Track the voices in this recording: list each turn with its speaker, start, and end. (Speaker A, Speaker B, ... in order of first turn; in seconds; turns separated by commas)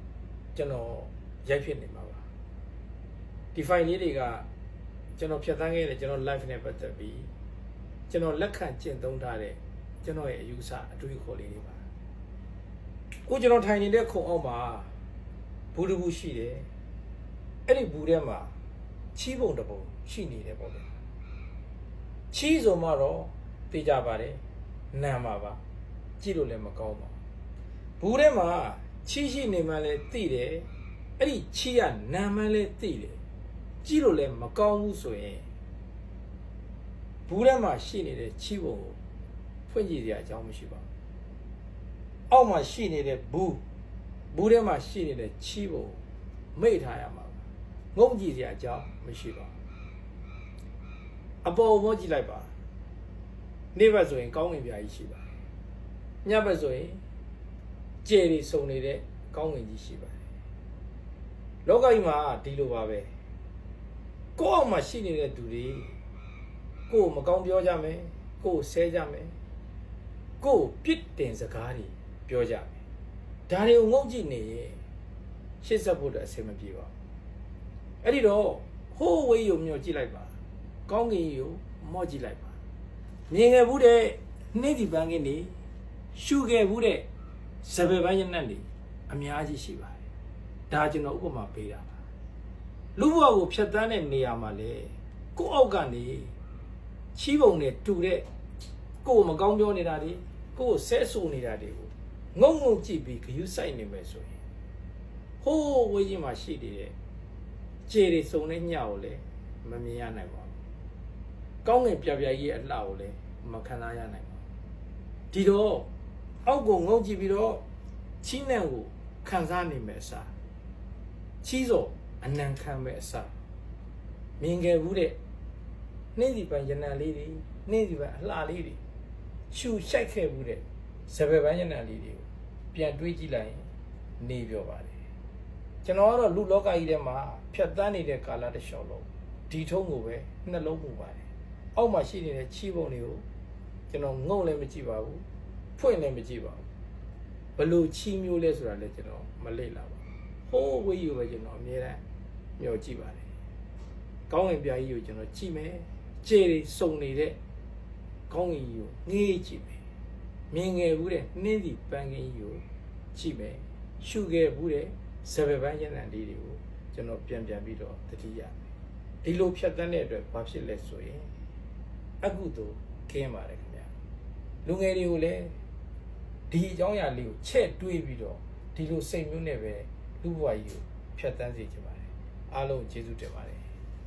Speaker A: 0.5-2.2, Speaker A: 3.5-4.5, Speaker A: 5.2-7.3, Speaker A: 8.1-11.8, Speaker A: 13.2-14.9, Speaker A: 15.7-16.7, Speaker A: 17.6-18.5, Speaker A: 19.1-20.9, Speaker A: 22.3-24.4, Speaker A: 24.9-25.6, Speaker A: 26.2-27.1, Speaker A: 28.0-30.7, Speaker A: 31.2-33.2, Speaker A: 33.8-35.4, Speaker A: 37.3-39.0, Speaker A: 39.7-40.8, Speaker A: 42.3-43.6, Speaker A: 44.3-46.0, Speaker A: 46.5-47.4, Speaker A: 47.9-49.5, Speaker A: 51.4-52.5, Speaker A: 53.7-55.2, Speaker A: 56.2-57.0, Speaker A: 58.0-60.1, Speaker A: 61.6-63.1, Speaker A: 64.3-66.0, Speaker A: 66.9-69.3, Speaker A: 70.4-72.7, Speaker A: 73.5-74.8, Speaker A: 75.6-76.9, Speaker A: 78.0-80.3, Speaker A: 80.9-82.5, Speaker A: 83.3-85.5, Speaker A: 86.1-87.1, Speaker A: 87.6-90.0, Speaker A: 90.7-91.9, Speaker A: 93.0-96.3, Speaker A: 97.1-98.2, Speaker A: 99.0-104.3, Speaker A: 105.4-106.9, Speaker A: 107.9-110.5, Speaker A: 111.6-114.4, Speaker A: 115.3-115.9, Speaker A: 116.4-117.6, Speaker A: 118.2-120.3, Speaker A: 121.4-123.3, Speaker A: 124.4-125.2, Speaker A: 126.1-128.8, Speaker A: 129.5-133.7, Speaker A: 134.2-134.9, Speaker A: 135.8-143.2, Speaker A: 143.9-145.2, Speaker A: 145.8-146.6, Speaker A: 147.6-152.0, Speaker A: 152.6-153.2, Speaker A: 154.3-157.4, Speaker A: 158.3-159.8, Speaker A: 160.5-162.6, Speaker A: 163.1-168.5, Speaker A: 169.2-171.3, Speaker A: 172.2-173.9, Speaker A: 174.6-175.6, Speaker A: 176.5-183.6